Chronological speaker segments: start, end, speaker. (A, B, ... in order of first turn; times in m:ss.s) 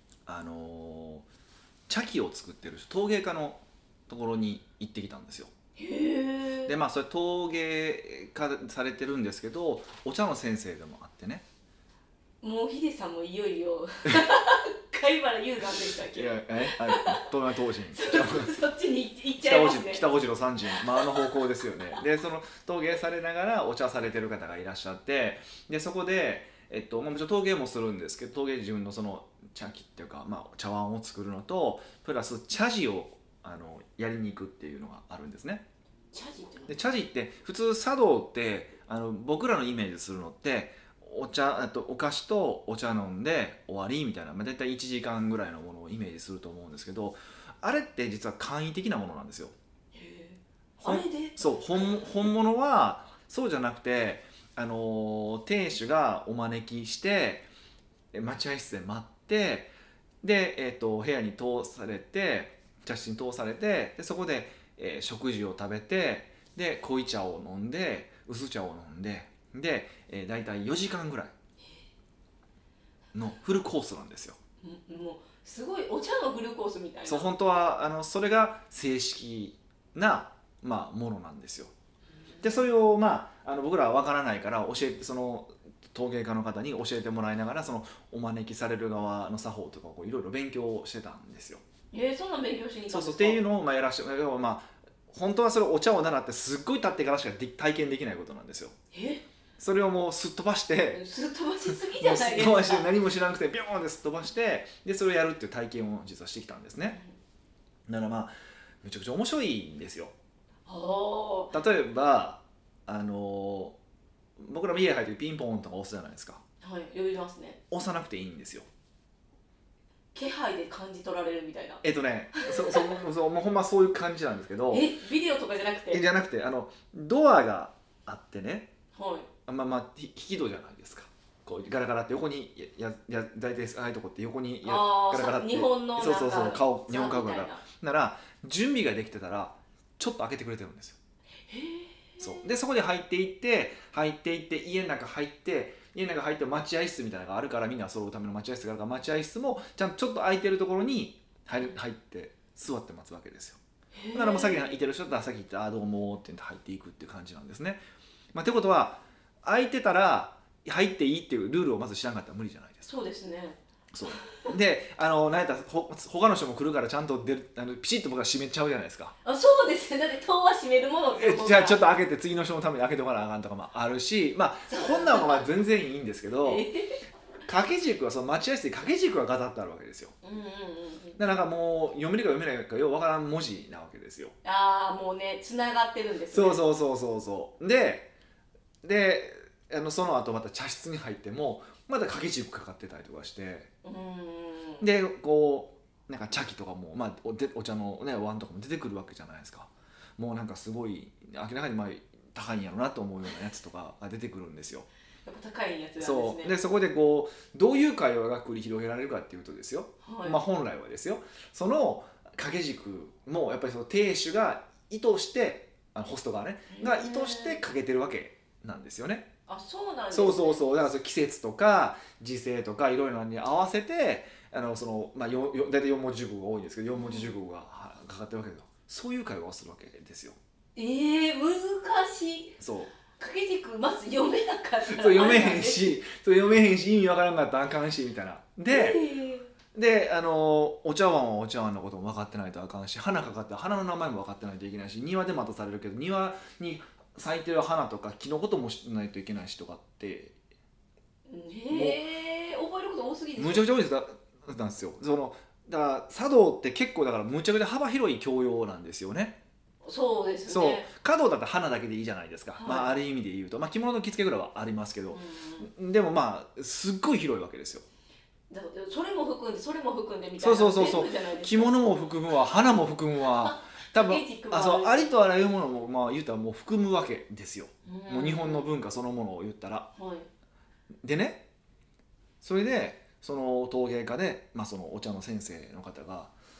0:00.3-0:01.2 A
0:01.9-0:05.5 A
0:05.8-0:06.7 B
0:06.6-0:11.4 A
0:12.4-0:17.3 B
0:16.1-0:18.6 A
0:17.9-0:20.0 B
0:19.4-0:35.6 A
0:20.7-0:21.3 B
0:36.1-0:36.7 B
0:36.7-0:49.5 A
0:49.9-0:52.3 B
0:50.8-0:57.5 A
0:58.1-1:11.3 A
1:13.1-1:14.4 A
1:14.6-1:17.3 B
1:17.1-1:21.7 A
1:22.3-1:22.6 B
1:22.4-1:31.6 A
1:31.9-1:33.4 B
1:32.9-1:38.8 A
1:38.9-1:39.2 B
1:39.6-1:41.0 A
1:40.9-1:42.9 B
1:41.7-1:47.0 A
1:47.9-1:50.1 A
1:50.6-1:51.5 B
1:51.5-1:53.8 A
1:54.4-1:56.4 A
1:56.6-1:57.6 B
1:57.7-1:58.7 A
2:00.1-2:01.8 B
2:01.8-2:04.9 A
2:02.4-2:03.0 B
2:04.7-2:06.0 B
2:05.9-2:08.7 A
2:08.9-2:09.3 B
2:09.5-2:21.0 A
2:14.6-2:17.6 B
2:21.4-2:22.5 B
2:22.2-2:33.6 A
2:34.0-2:34.7 B
2:34.1-2:37.8 A
2:38.3-2:42.9 A
2:42.8-2:43.6 B
2:43.9-2:49.1 A
2:44.1-2:44.5 B
2:49.2-2:51.8 B
2:51.1-2:56.7 A
2:54.7-2:55.4 B
2:56.4-2:57.0 B
2:57.5-3:00.1 A
3:00.2-3:01.2 B
3:01.2-3:04.3 A
3:04.4-3:06.6 B
3:06.3-3:08.1 A
3:08.8-3:13.7 A
3:13.8-3:14.8 B
3:14.8-3:24.9 A
3:25.2-3:26.6 B
3:26.0-3:39.3 A
3:30.0-3:30.4 B
3:36.7-3:37.6 B
3:39.5-3:40.6 B
3:40.1-3:50.4 A
3:46.9-3:47.3 B
3:50.7-3:52.6 B
3:52.6-3:52.9 A
3:53.1-3:56.0 B
3:54.9-3:59.0 A
3:58.7-3:59.5 B
3:59.7-4:10.3 A
4:11.3-4:13.7 B
4:11.7-4:12.0 A
4:13.4-4:19.4 A
4:19.8-4:20.9 B
4:20.5-4:27.8 A
4:22.6-4:23.0 B
4:25.1-4:25.7 B
4:28.5-4:31.7 B
4:30.4-4:39.9 A
4:33.4-4:35.2 B
4:37.8-4:38.7 B
4:40.0-4:40.3 B
4:41.0-4:41.4 A
4:42.4-4:46.3 A